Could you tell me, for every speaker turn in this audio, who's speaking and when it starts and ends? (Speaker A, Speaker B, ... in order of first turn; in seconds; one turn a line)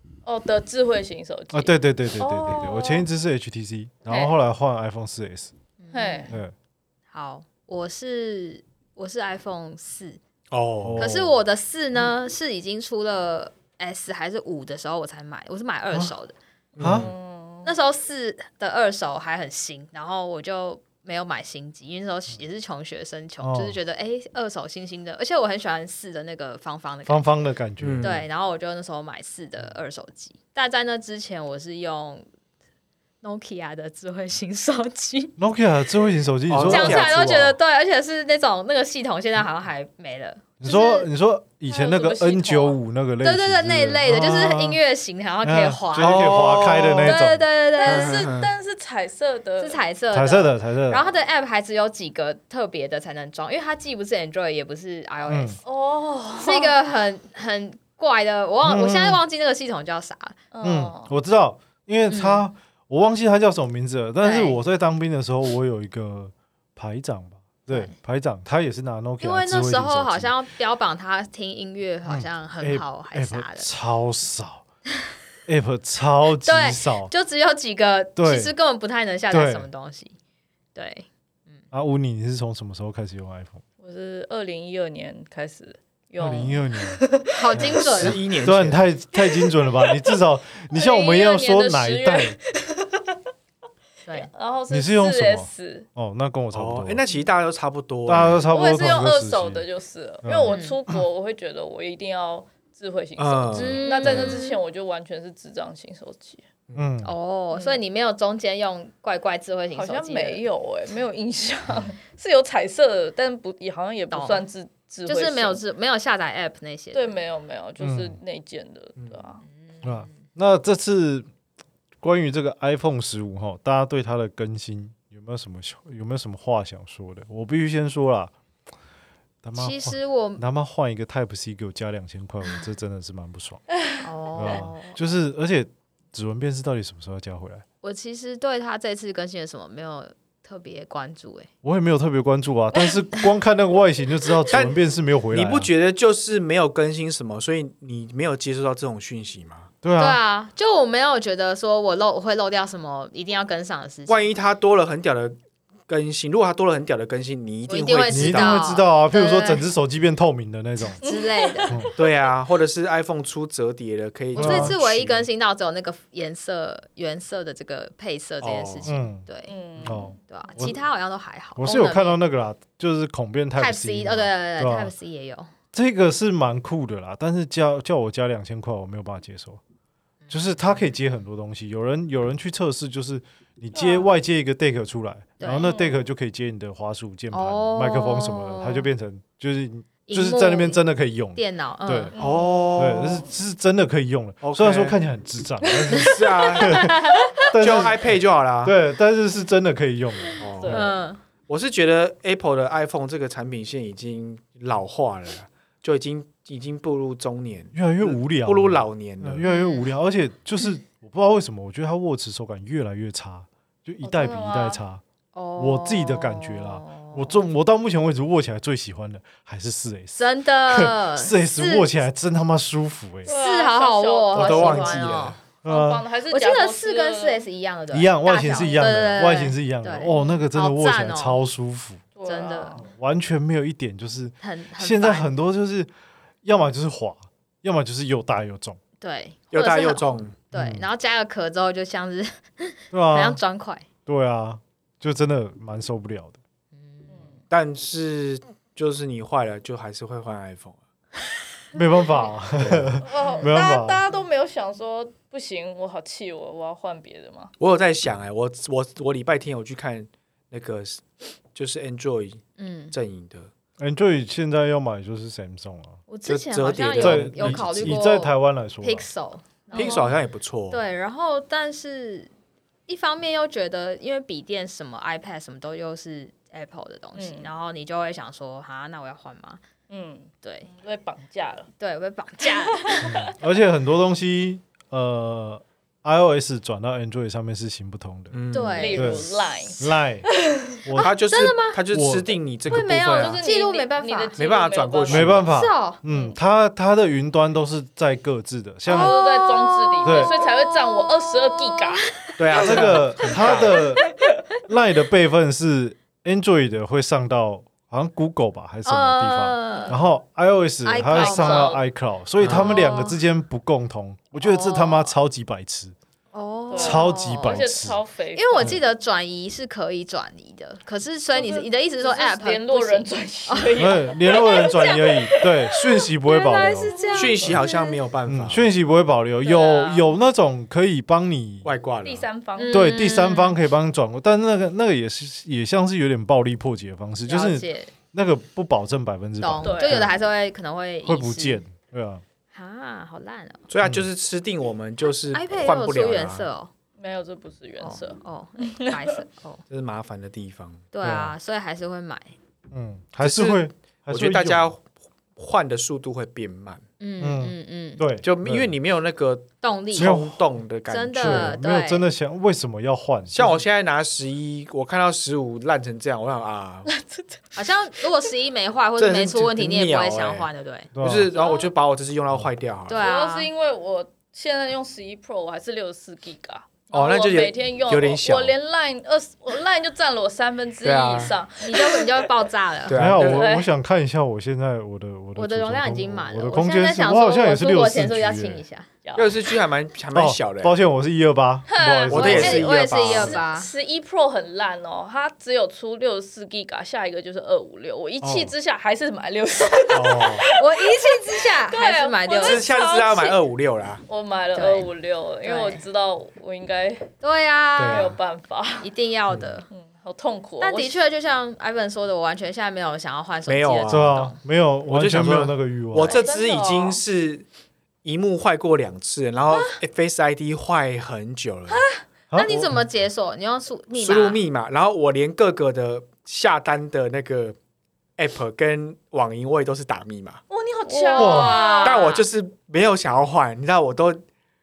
Speaker A: 0.2-3.1
Speaker B: 1.5-5.5
Speaker A: 4.1-4.3
Speaker C: 5.8-6.4
Speaker A: 5.9-6.3
Speaker C: 7.1-10.2
Speaker D: 10.5-11.1
Speaker B: 10.8-11.4
Speaker C: 11.0-16.4
Speaker D: 16.8-17.1
Speaker B: 16.8-17.1
Speaker A: 16.9-17.7
Speaker C: 17.6-27.3
Speaker B: 23.4-23.8
Speaker B: 27.1-28.2
Speaker D: 27.8-28.1
Speaker C: 28.0-32.3
Speaker C: 33.2-35.4
Speaker B: 35.4-37.6
Speaker D: 36.5-37.3
Speaker C: 36.6-41.1
Speaker B: 40.6-44.8
Speaker A: 41.7-42.8
Speaker C: 43.2-48.3
Speaker B: 45.4-47.4
Speaker D: 46.0-47.2
Speaker A: 47.8-49.8
Speaker D: 47.9-48.5
Speaker C: 49.6-55.6
Speaker B: 50.1-51.0
Speaker B: 55.3-55.5
Speaker A: 55.6-56.7
Speaker C: 56.4-60.4
Speaker B: 58.6-59.2
Speaker A: 60.5-61.1
Speaker B: 60.6-70.3
Speaker C: 62.1-62.4
Speaker C: 64.2-64.6
Speaker C: 67.7-67.9
Speaker C: 69.2-73.7
Speaker B: 72.1-74.6
Speaker B: 75.5-77.1
Speaker C: 76.4-80.2
Speaker B: 78.2-78.5
Speaker B: 79.3-79.7
Speaker C: 80.8-81.6
Speaker B: 81.7-83.6
Speaker A: 83.8-87.3
Speaker B: 86.2-87.0
Speaker C: 87.3-88.2
Speaker B: 87.5-92.4
Speaker D: 87.6-88.9
Speaker A: 89.2-90.0
Speaker A: 90.7-93.2
Speaker A: 94.1-95.9
Speaker B: 94.7-97.0
Speaker D: 96.5-98.5
Speaker B: 98.1-99.6
Speaker C: 98.2-98.4
Speaker A: 98.5-106.4
Speaker B: 100.2-101.0
Speaker C: 100.5-100.8
Speaker D: 103.2-104.3
Speaker C: 103.5-104.6
Speaker B: 106.8-107.1
Speaker C: 107.0-110.4
Speaker A: 107.5-107.8
Speaker A: 109.7-115.6
Speaker C: 114.1-114.4
Speaker C: 115.1-117.1
Speaker A: 116.9-119.4
Speaker B: 117.8-118.2
Speaker B: 119.8-121.3
Speaker B: 122.0-128.3
Speaker B: 129.4-133.6
Speaker C: 129.6-130.4
Speaker C: 134.0-135.0
Speaker B: 134.4-137.6
Speaker C: 137.8-141.5
Speaker B: 141.6-145.7
Speaker D: 144.5-144.8
Speaker D: 145.3-149.7
Speaker B: 149.8-150.2
Speaker C: 150.0-154.3
Speaker D: 154.1-158.7
Speaker C: 157.7-159.7
Speaker B: 158.1-161.0
Speaker C: 161.0-161.8
Speaker A: 161.0-161.9
Speaker D: 162.0-165.3
Speaker B: 164.3-164.8
Speaker C: 164.4-172.2
Speaker D: 168.4-168.9
Speaker B: 168.8-169.2
Speaker A: 169.5-170.1
Speaker B: 169.8-170.8
Speaker B: 171.6-174.9
Speaker C: 173.6-175.5
Speaker B: 175.7-179.6
Speaker B: 180.3-192.1
Speaker A: 183.8-184.1
Speaker C: 185.4-185.7
Speaker A: 185.6-186.0
Speaker C: 187.3-188.9
Speaker C: 190.1-190.8
Speaker C: 191.3-192.1
Speaker A: 192.1-193.1
Speaker D: 192.2-193.2
Speaker B: 192.8-196.9
Speaker D: 194.4-195.0
Speaker A: 195.8-196.2
Speaker D: 196.0-198.8
Speaker C: 196.4-197.5
Speaker B: 197.5-198.1
Speaker B: 198.6-200.9
Speaker D: 200.4-200.8
Speaker A: 200.4-201.0
Speaker C: 200.7-201.2
Speaker D: 201.5-209.4
Speaker B: 207.7-215.0
Speaker C: 209.4-209.9
Speaker A: 214.0-214.8
Speaker C: 215.3-217.4
Speaker B: 215.6-223.3
Speaker C: 220.2-221.9
Speaker A: 223.2-227.4
Speaker C: 223.3-225.4
Speaker D: 224.3-225.4
Speaker B: 225.6-226.0
Speaker C: 226.3-231.4
Speaker B: 227.9-232.0
Speaker A: 232.2-232.9
Speaker C: 232.3-232.8
Speaker B: 232.8-235.9
Speaker C: 234.4-235.3
Speaker B: 236.4-238.8
Speaker C: 239.0-243.9
Speaker D: 239.5-240.4
Speaker B: 240.5-240.9
Speaker B: 242.9-243.4
Speaker B: 244.1-246.4
Speaker C: 246.8-247.1
Speaker A: 247.1-247.4
Speaker D: 247.5-250.8
Speaker B: 251.7-254.0
Speaker D: 252.6-253.0
Speaker A: 253.0-257.5
Speaker D: 257.6-263.5
Speaker C: 262.6-262.9
Speaker B: 263.8-266.0
Speaker C: 266.1-270.1
Speaker D: 266.3-268.0
Speaker B: 267.0-269.1
Speaker A: 269.7-270.1
Speaker D: 269.7-270.8
Speaker C: 270.7-272.3
Speaker C: 272.9-279.6
Speaker A: 277.2-277.5
Speaker A: 279.9-281.7
Speaker C: 280.4-280.7
Speaker C: 281.8-283.1
Speaker A: 282.9-283.2
Speaker B: 283.0-288.4
Speaker D: 288.3-289.2
Speaker C: 288.5-289.2
Speaker A: 288.8-289.8
Speaker B: 288.9-290.3
Speaker A: 290.5-290.8
Speaker B: 290.9-291.1
Speaker D: 290.9-293.4
Speaker C: 291.1-291.8
Speaker B: 291.9-292.9
Speaker C: 292.7-294.3
Speaker A: 293.1-295.4
Speaker D: 294.4-295.5
Speaker B: 295.1-299.2
Speaker C: 295.4-296.0
Speaker A: 296.1-296.4
Speaker C: 298.9-302.7
Speaker A: 298.9-302.8
Speaker B: 300.0-300.3
Speaker D: 302.4-303.8
Speaker B: 302.6-304.1
Speaker B: 304.7-315.9
Speaker C: 308.9-310.0
Speaker A: 309.7-310.0
Speaker C: 310.9-311.7
Speaker A: 311.1-311.8
Speaker D: 312.4-312.8
Speaker C: 312.5-313.2
Speaker C: 314.4-315.1
Speaker C: 316.3-317.7
Speaker A: 316.7-318.8
Speaker B: 316.8-318.0
Speaker C: 318.4-328.0
Speaker A: 321.3-325.5
Speaker B: 323.8-327.6
Speaker A: 326.5-327.6
Speaker D: 327.1-328.7
Speaker B: 328.3-331.7
Speaker A: 329.4-330.1
Speaker D: 331.6-332.3
Speaker A: 332.0-332.9
Speaker C: 332.6-333.6
Speaker B: 332.7-340.1
Speaker C: 337.3-337.9
Speaker C: 339.4-341.6
Speaker A: 339.6-340.1
Speaker B: 341.1-342.2
Speaker C: 342.5-343.6
Speaker D: 343.7-346.5
Speaker B: 343.8-344.1
Speaker C: 345.3-346.7
Speaker A: 347.0-349.2
Speaker C: 347.8-349.6
Speaker D: 349.7-350.8
Speaker C: 350.9-352.3
Speaker B: 351.0-351.4
Speaker B: 352.7-354.6
Speaker D: 353.2-354.8
Speaker D: 355.4-356.8
Speaker C: 357.0-358.0
Speaker B: 357.2-358.7
Speaker D: 358.2-361.6
Speaker C: 359.6-360.2
Speaker B: 360.0-360.4
Speaker C: 360.9-362.1
Speaker B: 361.2-363.6
Speaker D: 363.3-366.9
Speaker A: 366.9-367.4
Speaker C: 367.6-370.9
Speaker D: 369.0-370.5
Speaker B: 370.9-371.3
Speaker D: 371.0-373.0
Speaker A: 371.3-371.7
Speaker C: 372.9-373.5
Speaker A: 373.0-382.3
Speaker D: 376.9-378.6
Speaker D: 380.8-381.4
Speaker C: 381.6-383.0
Speaker D: 382.9-383.5
Speaker B: 382.9-388.6
Speaker A: 383.2-383.7
Speaker C: 385.4-388.9
Speaker A: 389.1-389.5
Speaker D: 389.2-390.8
Speaker B: 390.1-392.8
Speaker A: 391.7-392.1
Speaker D: 392.1-393.4
Speaker C: 392.1-393.7
Speaker A: 393.0-403.4
Speaker B: 398.2-398.5
Speaker B: 399.9-400.4
Speaker C: 400.5-402.7
Speaker D: 402.3-404.0
Speaker A: 404.1-407.1
Speaker C: 404.6-404.9
Speaker C: 405.4-405.8
Speaker C: 407.2-408.1
Speaker D: 407.8-408.1
Speaker A: 407.9-408.9
Speaker C: 408.8-409.7
Speaker A: 409.7-411.0
Speaker C: 410.6-414.4
Speaker D: 413.5-414.2
Speaker B: 413.9-416.1
Speaker D: 414.9-417.5
Speaker A: 416.0-417.0
Speaker D: 418.0-421.9
Speaker A: 421.7-422.0
Speaker B: 422.3-422.8
Speaker C: 422.3-424.4
Speaker D: 424.0-427.6
Speaker D: 428.2-430.4
Speaker A: 430.5-432.1
Speaker C: 430.9-432.2
Speaker B: 431.2-431.6
Speaker D: 431.8-434.2